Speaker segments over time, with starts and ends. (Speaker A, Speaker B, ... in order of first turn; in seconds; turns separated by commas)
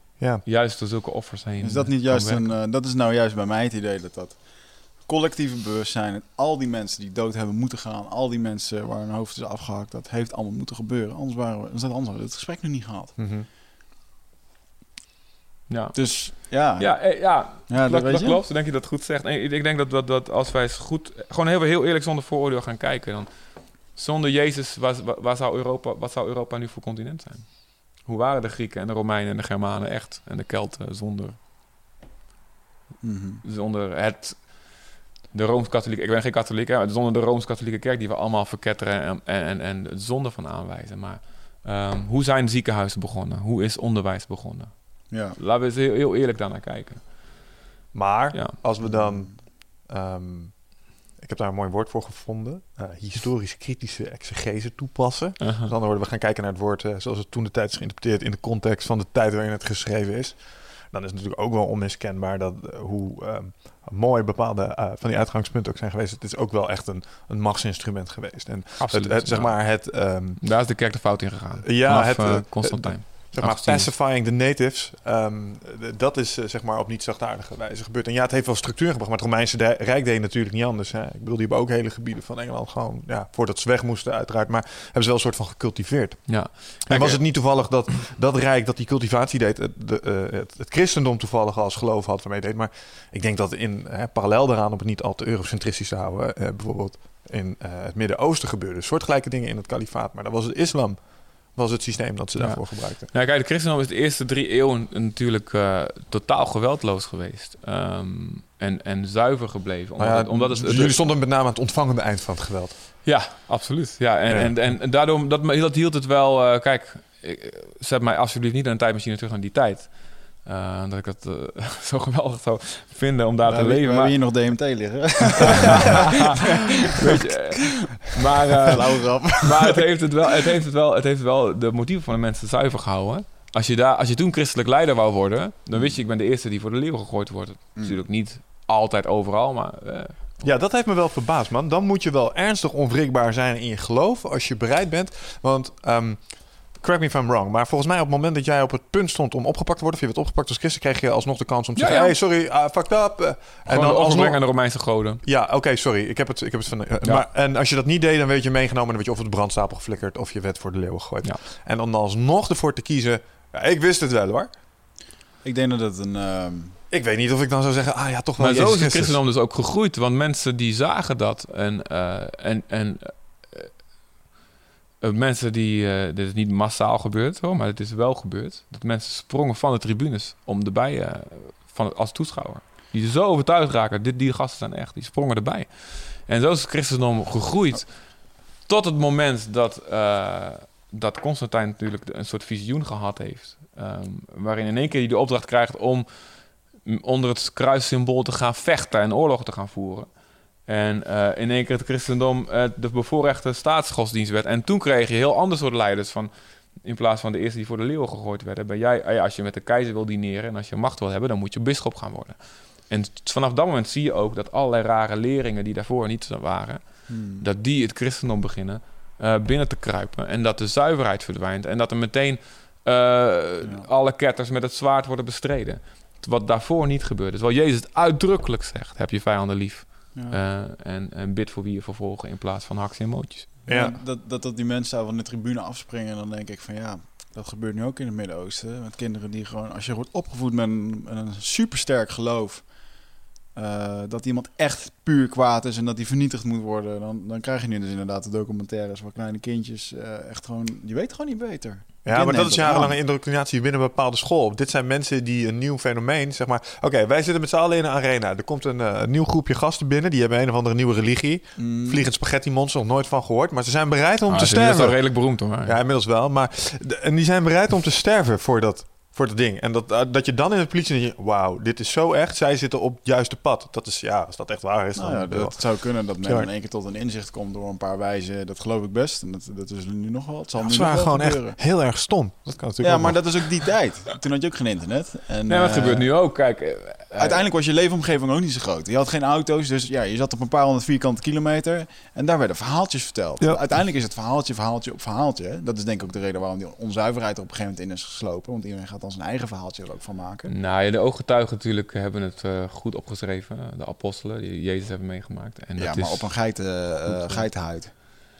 Speaker A: 0.2-0.4, Speaker B: 0.4-2.5, Speaker C: 1.6-13.2, Speaker A: 13.2-13.5, Speaker B: 15.7-31.4, Speaker C: 15.9-18.4, Speaker C: 33.0-33.4, Speaker B: 33.4-47.1, Speaker C: 45.1-45.4, Speaker A: 47.9-70.6, Speaker C: 48.8-49.3, Speaker B: 55.4-55.7, Speaker B: 68.8-73.9, Speaker A: 71.6-103.1, Speaker B: 86.3-87.3, Speaker B: 102.3-111.0, Speaker A: 110.0-112.8, Speaker B: 113.0-124.2, Speaker A: 114.3-114.7, Speaker C: 123.5-126.3, Speaker B: 125.5-140.5, Speaker C: 128.5-129.8, Speaker C: 135.7-136.0, Speaker C: 137.8-138.0, Speaker A: 140.4-164.5, Speaker B: 151.8-152.1, Speaker B: 153.7-155.2, Speaker B: 157.0-157.3, Speaker C: 165.4-166.8, Speaker A: 166.9-169.2, Speaker B: 168.4-173.7, Speaker B: 175.0-196.1, Speaker B: 196.7-233.5, Speaker C: 217.1-217.5, Speaker C: 223.6-223.9, Speaker C: 233.7-242.7, Speaker A: 233.7-234.0, Speaker C: 243.5-253.0, Speaker A: 252.0-276.5, Speaker C: 261.6-262.0, Speaker B: 264.3-265.8, Speaker C: 274.9-281.6, Speaker A: 280.6-283.6, Speaker C: 282.8-286.1, Speaker B: 285.5-287.4, Speaker C: 287.2-300.5, Speaker B: 300.4-307.5, Speaker C: 305.8-307.9